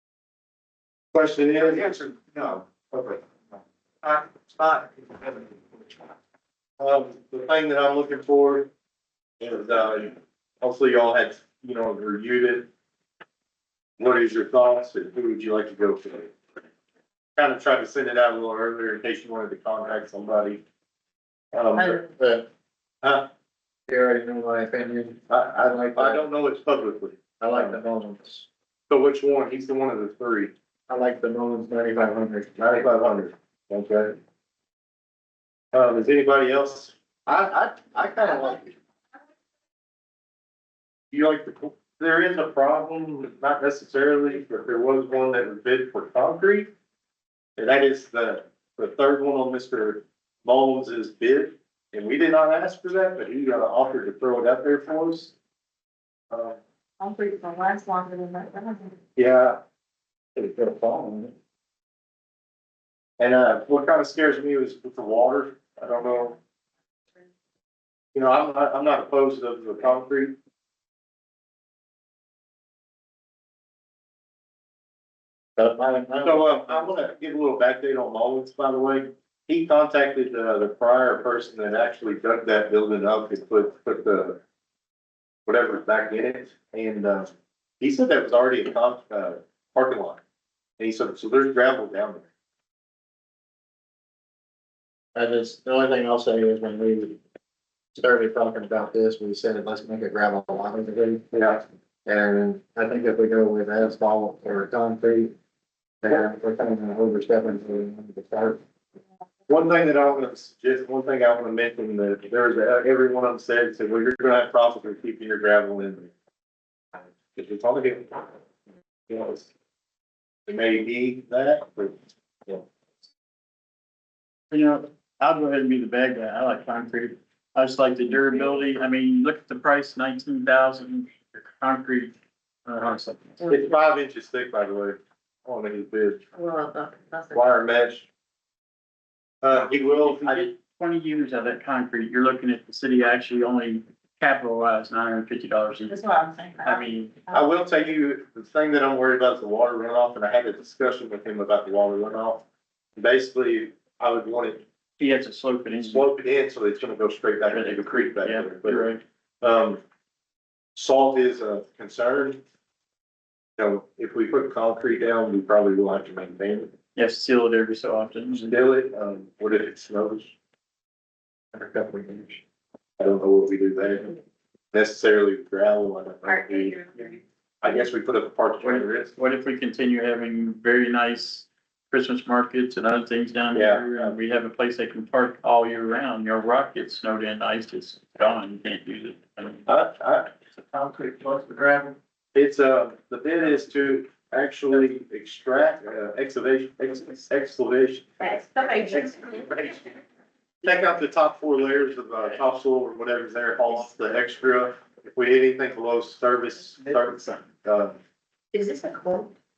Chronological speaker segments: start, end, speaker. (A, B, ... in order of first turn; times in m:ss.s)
0:01.1-0:03.2 A
0:01.7-0:02.5 B
0:04.0-0:05.8 B
0:06.8-0:08.7 A
0:09.4-0:12.7 A
0:14.0-0:16.3 A
0:17.4-0:20.6 A
0:21.5-0:22.0 A
0:21.8-0:22.5 B
0:23.0-0:23.3 A
0:23.9-0:26.2 B
0:25.3-0:27.8 A
0:27.4-0:28.4 B
0:28.9-0:30.5 A
0:30.9-0:32.5 B
0:32.6-0:34.2 A
0:35.7-0:38.7 A
0:41.1-0:46.7 A
0:47.6-0:55.3 A
0:56.3-0:56.6 A
0:57.0-0:58.9 C
0:59.2-0:59.6 A
1:00.4-1:01.3 B
1:03.2-1:06.4 A
1:08.1-1:10.4 A
1:15.6-1:16.8 B
1:16.2-1:24.4 A
1:25.5-1:30.2 A
1:30.8-1:32.3 A
1:35.1-1:37.2 B
1:38.0-1:41.2 B
1:41.3-1:41.6 A
1:42.0-1:45.3 B
1:46.0-1:48.6 B
1:49.5-1:56.1 A
1:57.0-1:58.3 A
1:59.1-1:59.5 A
2:00.5-2:02.6 A
2:04.5-2:12.1 D
2:12.6-2:13.5 D
2:13.4-2:16.2 A
2:16.3-2:17.4 C
2:17.3-2:18.1 A
2:19.4-2:20.5 A
2:19.7-2:26.0 D
2:25.9-2:27.4 C
2:26.6-2:27.2 D
2:27.3-2:32.4 A
2:33.0-2:34.6 A
2:35.0-2:36.0 D
2:35.8-2:38.9 A
2:37.5-2:39.0 D
2:39.4-2:39.8 A
2:40.8-2:42.4 A
2:43.6-2:46.7 A
2:46.9-2:48.6 D
2:48.3-2:50.3 A
2:51.5-2:52.4 B
2:53.0-2:54.1 A
2:54.7-2:56.8 A
2:56.2-2:57.2 C
2:57.6-2:59.1 A
2:58.6-3:09.7 D
3:03.5-3:04.2 A
3:09.7-3:10.3 A
3:12.3-3:18.4 A
3:18.2-3:19.6 C
3:18.9-3:19.9 A
3:20.6-3:28.0 A
3:28.5-3:29.3 C